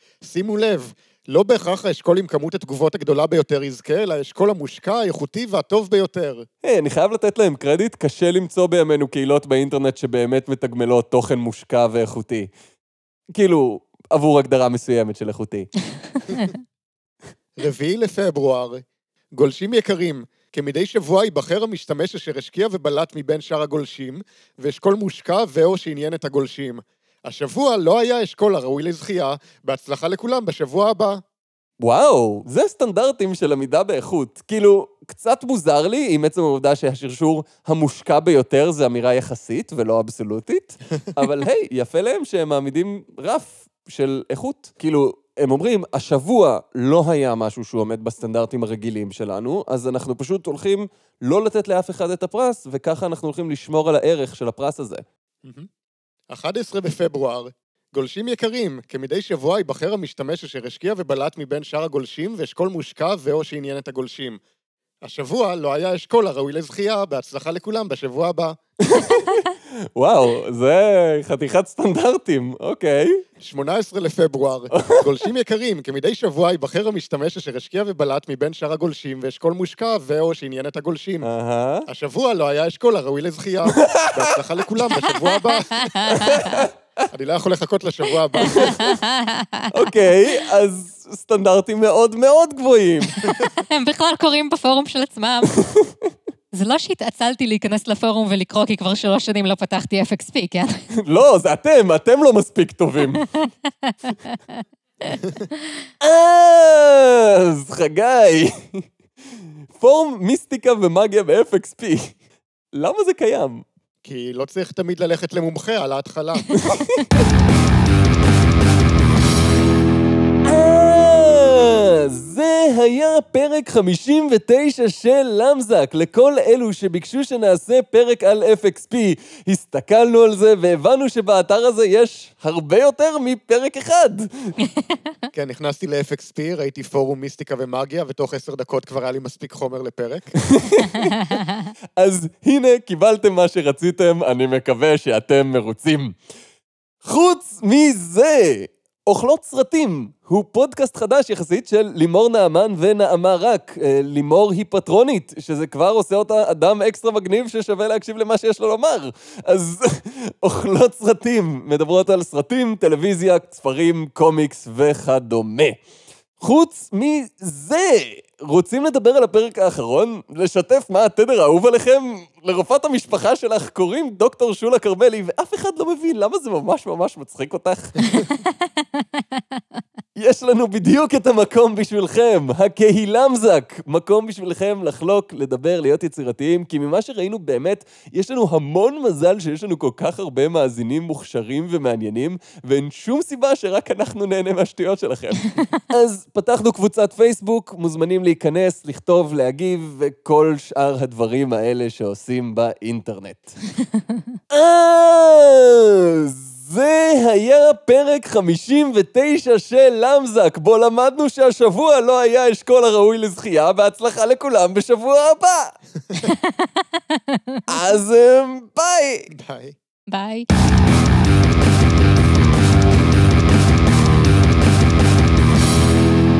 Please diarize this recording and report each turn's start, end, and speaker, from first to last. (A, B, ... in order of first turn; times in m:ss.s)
0:00.2-0:06.4 A
0:06.6-0:12.5 B
0:13.3-0:15.7 B
0:17.6-0:18.8 A
0:19.3-0:31.2 A
0:31.8-0:55.0 B
0:56.3-1:04.4 A
1:05.0-1:08.6 A
1:08.9-1:09.4 B
1:10.0-1:13.2 B
1:13.4-1:21.3 A
1:14.7-1:15.0 B
1:21.2-1:21.8 B
1:21.9-1:26.0 A
1:23.8-1:24.2 B
1:25.5-1:26.6 C
1:26.0-1:26.7 B
1:27.1-1:28.9 A
1:28.4-1:29.7 C
1:29.7-1:33.2 B
1:33.2-1:35.6 C
1:36.5-1:40.7 C
1:41.0-1:43.3 B
1:43.4-1:45.2 C
1:46.0-1:48.8 B
1:49.8-1:52.2 B
1:52.8-1:53.6 B
1:54.0-1:56.4 A
1:56.6-1:57.2 B
2:00.4-2:14.5 B
2:15.3-2:20.4 A
2:20.5-2:21.2 B
2:22.0-2:26.2 B
2:27.0-2:45.8 B
2:46.4-2:58.2 B
2:58.2-2:58.4 C
3:00.2-3:23.6 B
3:24.5-3:35.7 B
3:36.1-3:37.6 C
3:37.7-3:39.3 B
3:39.3-3:39.8 A
3:40.1-3:40.5 C